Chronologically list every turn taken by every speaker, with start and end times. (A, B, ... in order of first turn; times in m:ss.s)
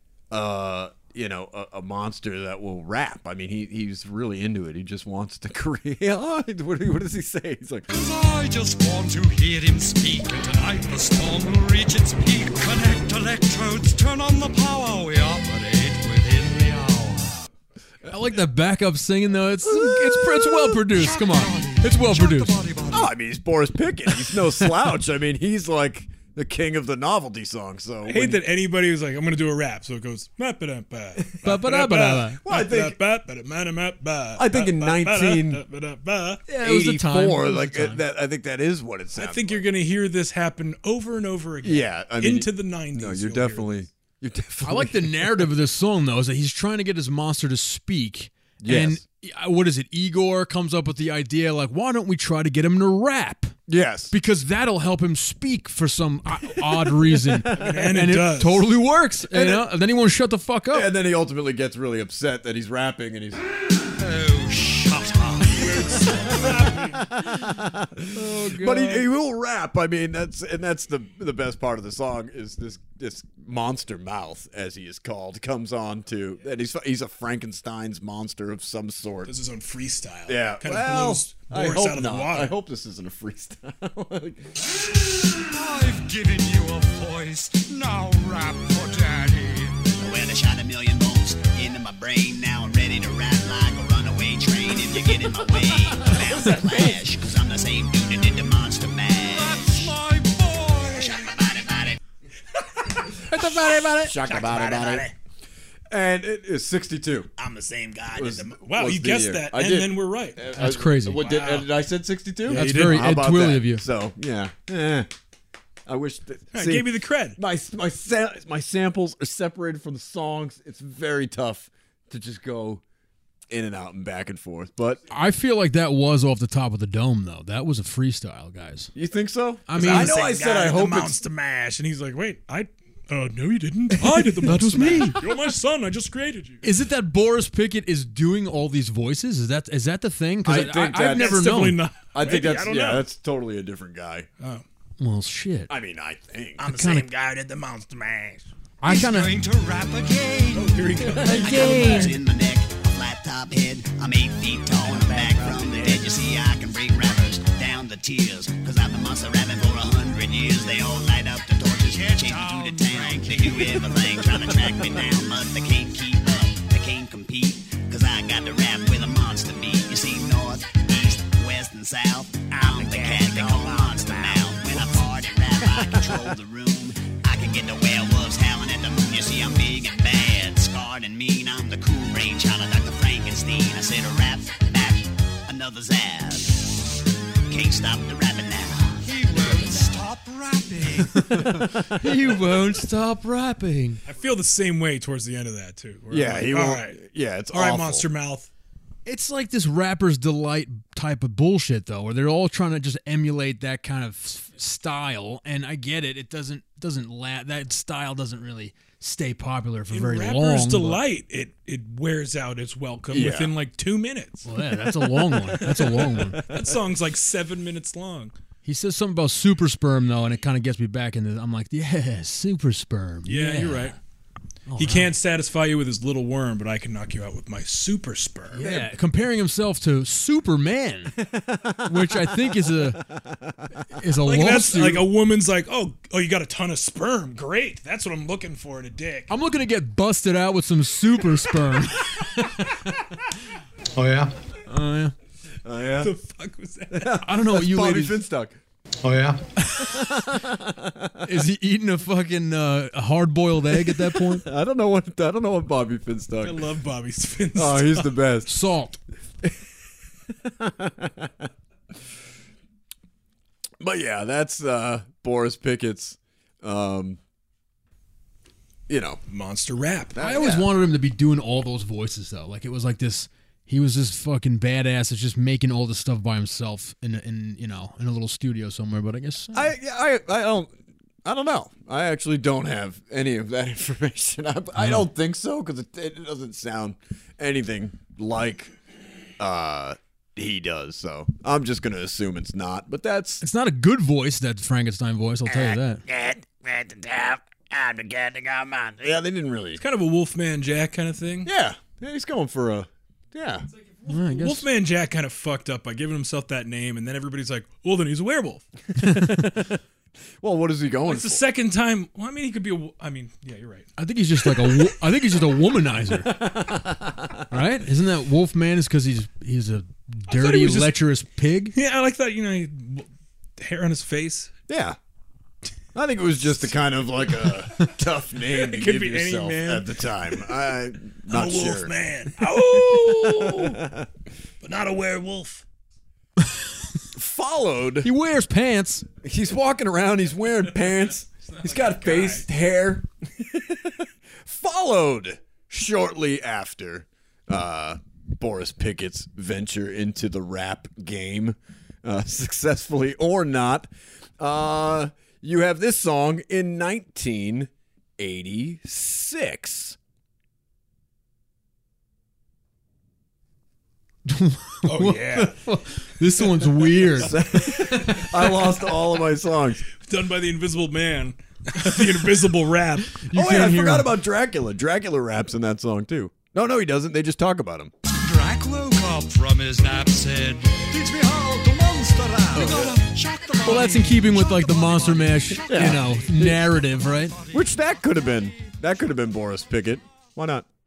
0:00.3-0:07.9 A
0:07.9-0:17.4 B
0:18.1-0:22.6 C
0:20.8-0:23.1 B
0:22.9-0:28.4 A
0:28.1-0:36.4 D
0:31.4-0:32.4 C
0:32.4-0:33.0 A
0:34.4-0:35.6 A
0:36.5-0:38.0 C
0:36.6-0:39.6 A
0:39.2-0:43.8 D
0:41.6-0:45.5 A
0:44.6-0:53.6 C
0:48.6-0:49.0 A
0:53.7-0:54.1 A
0:54.1-1:00.9 C
0:56.7-0:57.8 A
0:57.6-0:58.6 D
0:59.3-0:59.7 A
1:00.7-1:03.4 A
1:04.0-1:06.0 B
1:05.9-1:06.8 D
1:06.1-1:19.3 A
1:08.1-1:09.1 C
1:19.3-1:22.5 D
1:20.3-1:24.5 A
1:25.3-1:29.8 B
1:30.0-1:39.9 E
1:39.2-1:41.3 B
1:40.9-1:42.0 E
1:43.3-1:44.2 C
1:44.3-1:45.1 B
1:44.5-1:44.9 E
1:45.9-1:47.3 A
1:47.7-1:48.1 B
1:48.1-1:55.1 A
1:48.5-1:50.5 D
1:50.5-1:51.3 C
1:51.2-1:51.7 D
1:52.5-1:53.8 C
1:52.5-1:53.0 D
1:55.9-2:02.8 A
1:56.5-1:57.4 D
2:03.5-2:05.0 A
2:05.1-2:08.9 C
2:09.0-2:11.2 A
2:09.7-2:10.2 C
2:09.8-2:16.6 D
2:14.4-2:15.2 C
2:16.6-2:21.8 C
2:20.4-2:21.5 A
2:21.1-2:23.0 D
2:22.1-2:24.3 A
2:25.0-2:25.7 C
2:25.7-2:26.7 A
2:26.6-2:27.1 C
2:28.8-2:29.4 C
2:28.8-2:32.1 B
2:30.6-2:31.7 D
2:31.3-2:32.1 C
2:31.4-3:06.6 E
2:35.0-2:36.1 B
2:41.9-2:44.2 B
2:52.5-2:55.1 B
2:55.7-2:56.2 A
3:07.5-3:09.0 E
3:09.0-3:11.2 B
3:11.1-3:14.0 C
3:11.3-3:12.4 A
3:14.1-3:17.0 D
3:16.1-3:18.1 A
3:17.5-3:18.5 D
3:19.0-3:31.0 C
3:29.9-3:34.5 D
3:33.1-3:33.6 A
3:34.4-3:36.4 C
3:36.0-3:36.6 A
3:36.5-3:38.3 D
3:38.6-3:44.0 C
3:43.2-3:44.0 D
3:44.7-3:45.2 C
3:44.8-3:48.6 D
3:48.5-3:51.2 C
3:48.6-3:48.9 A
3:51.2-3:53.8 A
3:51.8-3:53.0 C
3:53.9-3:55.1 C
3:54.2-3:59.3 D
3:59.3-4:02.8 C
4:04.7-4:05.1 C
4:05.6-4:06.1 A
4:06.0-4:07.1 D
4:06.9-4:08.6 A
4:07.2-4:08.2 C
4:09.8-4:11.2 A
4:11.2-4:14.4 C
4:13.9-4:16.6 A
4:16.4-4:18.0 D
4:17.5-4:18.5 A
4:18.5-4:19.0 C
4:20.4-4:21.5 A
4:23.8-4:27.2 A
4:28.9-4:29.2 A
4:29.3-4:30.2 D
4:30.2-4:30.7 A
4:30.2-4:39.7 C
4:39.5-4:40.7 A
4:41.2-4:48.7 A
4:44.8-4:45.1 C
4:49.4-4:53.4 A
4:53.4-4:56.0 C
4:56.1-4:58.9 B
4:59.0-4:59.8 A
4:59.8-5:01.5 D
5:01.4-5:03.7 A
5:03.9-5:08.6 D
5:04.1-5:04.7 C
5:09.0-5:09.6 C
5:09.0-5:09.8 A
5:10.4-5:11.4 A
5:11.1-5:13.9 D
5:14.0-5:16.4 C
5:16.2-5:17.4 A
5:17.5-5:21.8 C
5:20.3-5:20.9 D
5:21.8-5:23.1 D
5:23.6-5:24.5 D
5:24.7-5:25.0 A
5:26.0-5:31.9 A
5:28.6-5:29.9 D
5:31.3-5:33.8 D
5:32.5-5:34.1 A
5:34.6-5:35.6 D
5:37.2-5:38.1 A
5:38.0-5:39.1 C
5:39.2-6:00.0 A
5:41.3-5:42.4 D
6:04.3-6:08.3 C
6:04.9-6:05.5 D
6:07.2-6:09.8 A
6:10.1-6:13.2 D
6:13.2-6:14.1 C
6:13.3-6:17.9 A
6:18.2-6:26.3 B
6:22.5-6:22.9 C
6:22.6-6:22.8 A
6:23.6-6:27.4 C
6:25.7-6:26.6 A
6:27.5-6:30.7 A